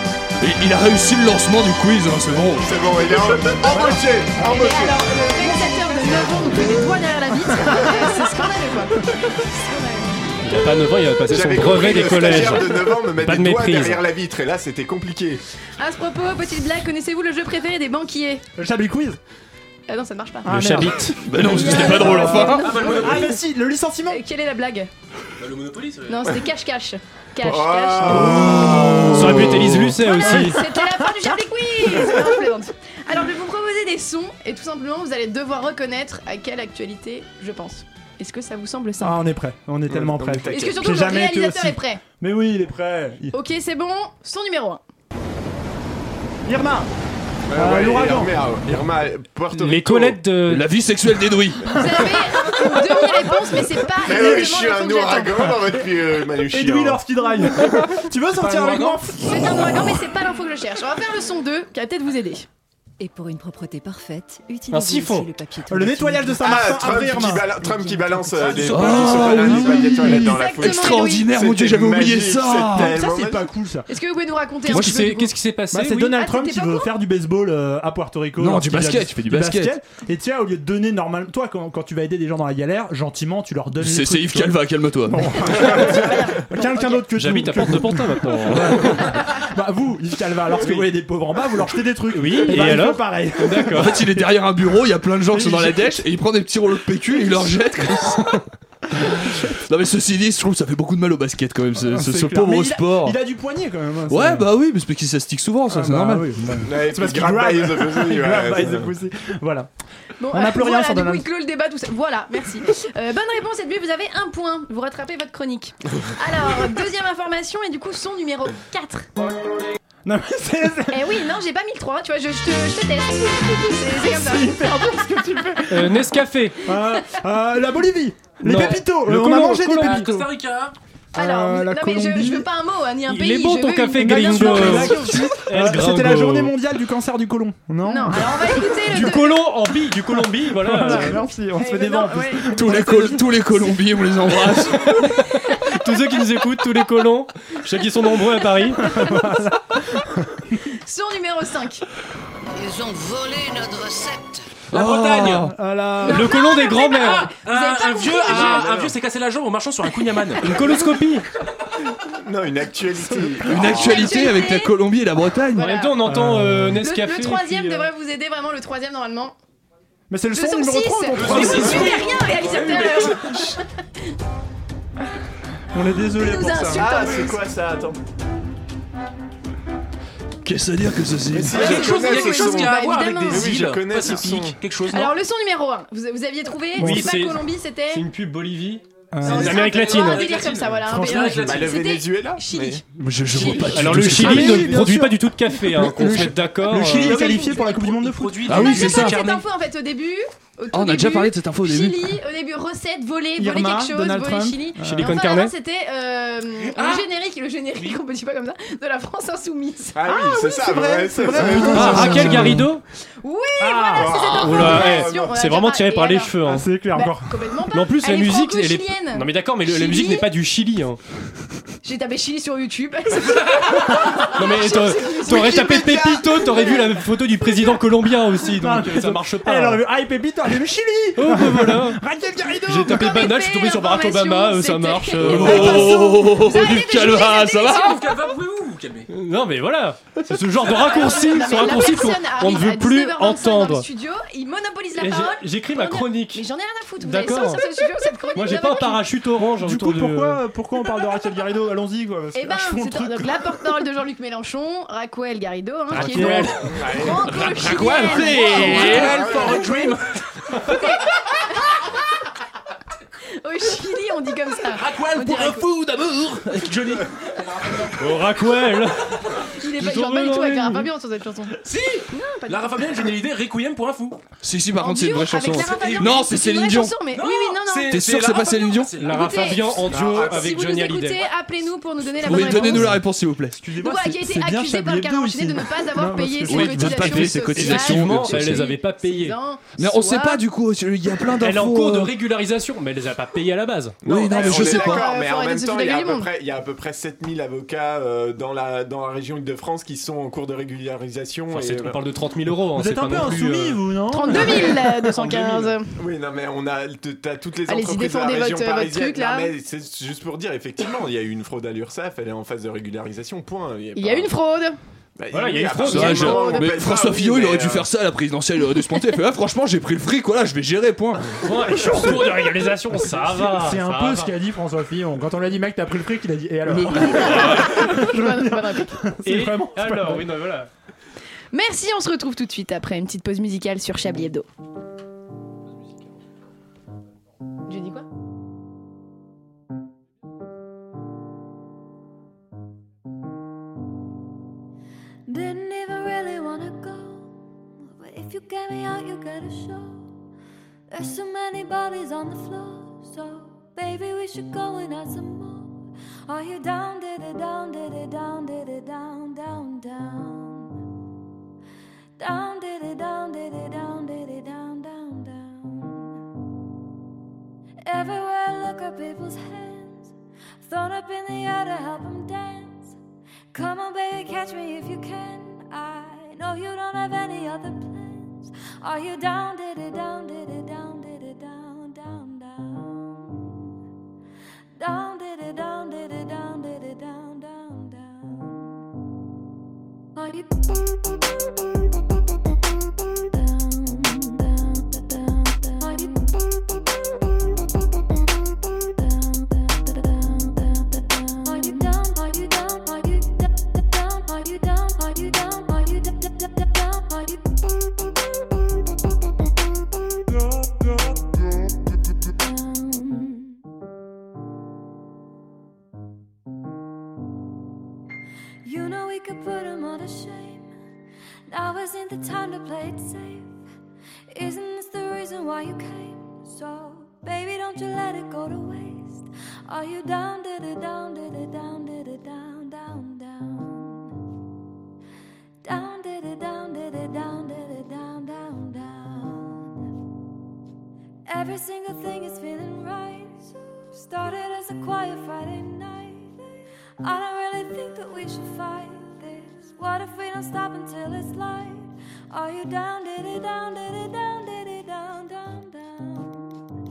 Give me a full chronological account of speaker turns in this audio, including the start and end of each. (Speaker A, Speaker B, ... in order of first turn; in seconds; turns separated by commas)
Speaker A: 0.4-2.7, Speaker B: 2.6-5.2, Speaker C: 3.7-4.7, Speaker D: 4.4-10.3, Speaker C: 7.6-8.2, Speaker E: 10.4-14.0, Speaker B: 11.3-15.4, Speaker D: 15.8-18.4, Speaker C: 18.6-19.2, Speaker D: 19.9-20.5, Speaker C: 20.4-24.2, Speaker E: 20.5-21.1, Speaker A: 21.2-22.7, Speaker D: 21.4-23.4, Speaker F: 22.6-23.3, Speaker D: 24.1-24.9, Speaker F: 25.4-26.3, Speaker D: 26.1-28.4, Speaker B: 27.4-29.4, Speaker C: 28.1-29.2, Speaker A: 28.4-29.9, Speaker E: 29.1-30.6, Speaker D: 30.1-39.2, Speaker C: 30.2-32.3, Speaker C: 39.0-43.3, Speaker B: 39.9-41.0, Speaker D: 40.5-42.0, Speaker D: 43.3-44.8, Speaker C: 46.5-46.9, Speaker B: 47.5-50.2, Speaker C: 47.5-48.3, Speaker E: 49.5-50.7, Speaker A: 50.5-51.8, Speaker D: 51.7-55.5, Speaker C: 51.9-53.0, Speaker B: 54.0-57.0, Speaker C: 56.4-59.8, Speaker F: 58.4-59.0, Speaker D: 59.2-62.5, Speaker G: 63.0-68.5, Speaker E: 64.7-65.3, Speaker C: 65.7-67.5, Speaker B: 66.4-73.5, Speaker A: 68.5-73.0, Speaker D: 69.9-71.3, Speaker C: 72.8-73.8, Speaker D: 73.9-75.3, Speaker E: 74.7-76.2, Speaker C: 75.7-94.4, Speaker D: 76.2-76.9, Speaker A: 78.4-79.8, Speaker A: 83.8-85.5, Speaker D: 85.5-87.0, Speaker E: 87.1-89.1, Speaker E: 90.6-90.9, Speaker E: 92.1-94.0, Speaker A: 93.7-98.4, Speaker C: 95.3-96.0, Speaker C: 99.0-99.5, Speaker A: 99.2-103.2, Speaker C: 101.8-104.5, Speaker A: 104.1-106.3, Speaker C: 105.7-109.7, Speaker B: 106.6-108.9, Speaker D: 110.2-119.1, Speaker C: 110.3-111.2, Speaker C: 120.0-121.0, Speaker D: 120.9-124.6, Speaker C: 124.0-126.0, Speaker E: 125.7-126.6, Speaker C: 126.6-130.3, Speaker E: 128.4-130.1, Speaker F: 129.8-130.7, Speaker C: 131.1-132.4, Speaker D: 131.2-135.1, Speaker E: 133.1-136.5, Speaker C: 134.0-138.9, Speaker D: 137.8-139.4, Speaker E: 138.9-141.2, Speaker C: 140.5-143.3, Speaker D: 140.8-142.9, Speaker A: 142.5-145.1, Speaker E: 145.0-148.9, Speaker C: 148.8-149.6, Speaker D: 150.8-151.8, Speaker H: 152.5-154.5, Speaker A: 154.7-155.5, Speaker F: 154.7-155.5, Speaker C: 155.4-156.3, Speaker D: 156.0-158.8, Speaker E: 156.0-157.3, Speaker F: 156.9-160.6, Speaker B: 158.3-158.9, Speaker E: 160.4-161.2, Speaker B: 162.1-163.9, Speaker A: 163.4-165.7, Speaker D: 163.7-164.7, Speaker D: 165.5-166.0, Speaker E: 165.6-167.9, Speaker C: 166.1-166.8, Speaker D: 166.8-169.3, Speaker C: 170.1-172.0, Speaker D: 170.3-173.6, Speaker F: 171.1-173.2, Speaker C: 175.7-176.9, Speaker D: 176.2-177.4, Speaker B: 176.7-178.0, Speaker A: 180.4-181.6, Speaker B: 181.3-184.6, Speaker F: 181.5-185.2, Speaker D: 181.5-183.6, Speaker D: 184.9-188.0, Speaker E: 186.8-188.8, Speaker C: 186.8-187.1, Speaker C: 189.1-189.6, Speaker D: 189.2-194.6, Speaker F: 189.2-191.7, Speaker E: 189.5-190.1, Speaker C: 190.9-191.4, Speaker B: 191.4-192.8, Speaker A: 193.0-194.8, Speaker E: 193.7-197.3, Speaker C: 193.9-198.8, Speaker D: 197.0-197.8, Speaker F: 197.0-199.4, Speaker A: 198.4-199.2, Speaker D: 198.5-210.5, Speaker A: 200.7-202.1, Speaker C: 203.4-205.1, Speaker E: 204.8-205.5, Speaker F: 206.7-207.0, Speaker B: 209.9-212.5, Speaker C: 210.1-212.7, Speaker E: 211.7-212.8, Speaker D: 213.2-216.4, Speaker C: 213.6-214.2, Speaker B: 213.9-215.4, Speaker E: 214.4-216.7, Speaker C: 216.4-217.3, Speaker D: 216.9-220.3, Speaker E: 217.7-221.0, Speaker D: 221.8-226.9, Speaker E: 224.3-229.8, Speaker B: 225.7-226.2, Speaker C: 228.6-233.2, Speaker E: 231.2-232.0, Speaker E: 232.7-236.0, Speaker D: 232.8-238.2, Speaker A: 235.2-238.0, Speaker F: 237.7-239.1, Speaker E: 239.1-243.8, Speaker D: 240.6-249.0, Speaker E: 245.0-246.4, Speaker E: 247.0-250.4, Speaker C: 249.4-253.4, Speaker D: 252.3-259.9, Speaker E: 255.9-256.6, Speaker C: 255.9-256.7, Speaker F: 257.2-260.1, Speaker A: 257.7-259.1, Speaker B: 258.9-259.6, Speaker D: 260.6-261.8, Speaker D: 263.4-265.6, Speaker F: 264.8-267.8, Speaker A: 266.0-266.5, Speaker E: 268.0-270.9, Speaker D: 269.6-272.8, Speaker F: 271.6-274.2, Speaker A: 274.4-277.0, Speaker D: 274.8-282.9, Speaker F: 275.6-276.2, Speaker F: 277.1-279.6, Speaker A: 277.9-279.0, Speaker E: 279.0-281.3, Speaker B: 279.9-280.4, Speaker A: 282.2-283.6, Speaker C: 283.6-287.5, Speaker D: 283.8-290.4, Speaker A: 286.4-288.7, Speaker E: 287.5-289.4, Speaker A: 289.8-292.1, Speaker E: 291.4-294.0, Speaker A: 294.0-295.0, Speaker B: 294.0-302.0, Speaker D: 294.3-296.3, Speaker E: 301.5-303.8, Speaker C: 302.8-305.2, Speaker D: 304.1-305.9, Speaker E: 305.1-305.7, Speaker B: 306.0-314.4, Speaker D: 307.7-309.5, Speaker D: 313.9-314.8, Speaker B: 315.1-317.9, Speaker E: 315.3-316.3, Speaker A: 315.8-321.4, Speaker D: 315.9-316.7, Speaker E: 321.4-324.3, Speaker C: 321.7-330.2, Speaker A: 326.6-327.6, Speaker D: 327.1-329.0, Speaker E: 329.2-330.7, Speaker D: 331.5-334.5, Speaker D: 337.7-338.1, Speaker I: 345.3-347.3, Speaker I: 347.9-350.1, Speaker I: 350.9-360.8, Speaker I: 362.2-366.2, Speaker I: 367.9-372.9, Speaker I: 373.5-383.7, Speaker I: 384.8-388.8, Speaker I: 390.1-391.4, Speaker I: 393.0-396.7, Speaker I: 398.6-407.6, Speaker I: 410.6-410.8, Speaker I: 412.3-413.6, Speaker I: 418.6-420.7, Speaker I: 421.5-423.5, Speaker I: 424.3-434.1, Speaker I: 435.6-439.8, Speaker I: 441.3-456.6